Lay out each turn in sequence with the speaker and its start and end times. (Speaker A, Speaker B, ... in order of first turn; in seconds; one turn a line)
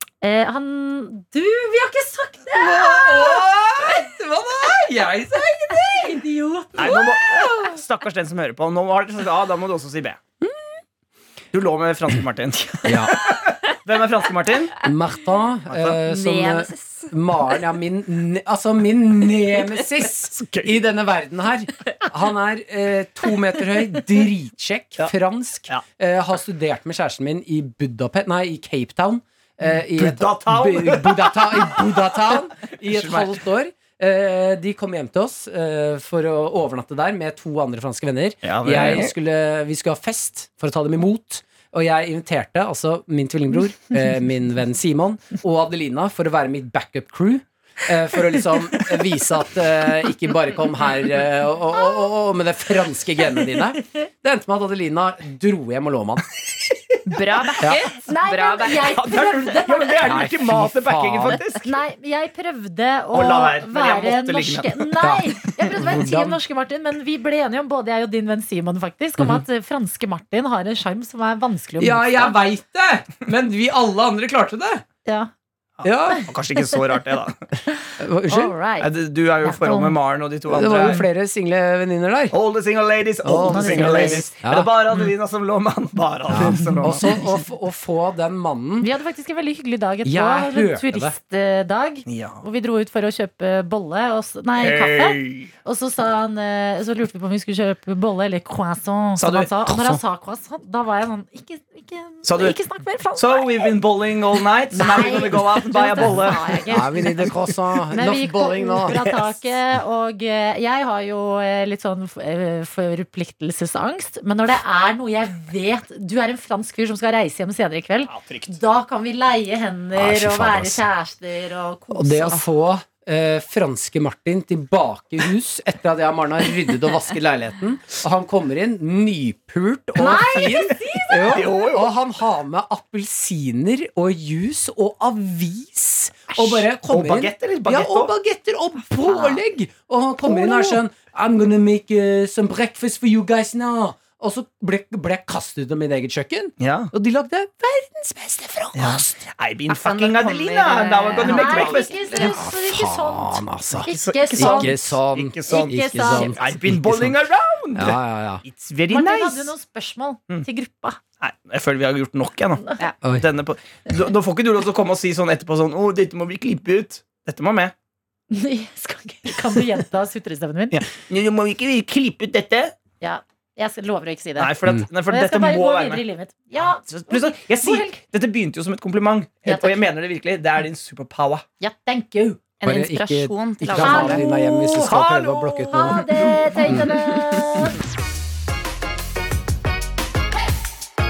Speaker A: 0.2-3.5
Speaker B: 2.5-7.7
Speaker A: 5.7-7.0
Speaker C: 6.8-10.2
Speaker C: 11.5-14.8
Speaker B: 12.8-13.2
Speaker B: 14.8-56.2
Speaker C: 15.7-16.0
Speaker D: 16.1-17.1
Speaker C: 20.3-20.8
Speaker C: 30.0-31.9
Speaker C: 32.9-33.4
Speaker C: 38.4-39.1
Speaker D: 57.1-59.0
Speaker A: 58.1-60.2
Speaker C: 58.8-61.7
Speaker B: 60.0-61.4
Speaker A: 61.6-72.4
Speaker C: 63.1-64.9
Speaker B: 65.0-66.4
Speaker B: 71.8-74.8
Speaker C: 75.8-77.5
Speaker B: 75.8-76.3
Speaker B: 78.0-78.6
Speaker A: 78.3-78.9
Speaker C: 78.8-81.0
Speaker A: 79.4-80.0
Speaker B: 80.5-82.3
Speaker C: 82.3-87.2
Speaker B: 83.2-84.7
Speaker A: 83.3-84.3
Speaker B: 86.3-88.9
Speaker A: 88.8-103.7
Speaker B: 90.0-91.2
Speaker C: 92.1-92.4
Speaker C: 94.6-95.5
Speaker C: 99.2-99.5
Speaker B: 99.7-100.0
Speaker C: 102.2-102.6
Speaker C: 103.2-106.6
Speaker A: 104.7-107.0
Speaker B: 106.7-109.4
Speaker A: 107.9-122.4
Speaker C: 118.1-118.5
Speaker B: 120.0-120.8
Speaker B: 121.9-149.2
Speaker A: 130.0-131.1
Speaker C: 130.0-131.9
Speaker C: 136.5-138.1
Speaker D: 139.0-139.4
Speaker C: 146.6-146.9
Speaker C: 148.8-151.9
Speaker D: 149.7-152.4
Speaker A: 151.2-154.8
Speaker B: 152.2-157.2
Speaker C: 153.9-159.5
Speaker A: 155.5-156.3
Speaker B: 157.8-158.4
Speaker A: 158.9-161.0
Speaker C: 161.2-167.7
Speaker D: 162.8-163.0
Speaker A: 168.3-170.8
Speaker C: 170.7-172.8
Speaker A: 173.0-178.0
Speaker C: 174.4-176.0
Speaker C: 176.6-181.4
Speaker A: 179.5-179.8
Speaker A: 181.6-182.4
Speaker D: 182.6-184.2
Speaker B: 182.7-187.0
Speaker A: 183.8-185.0
Speaker C: 184.8-186.5
Speaker A: 185.7-187.8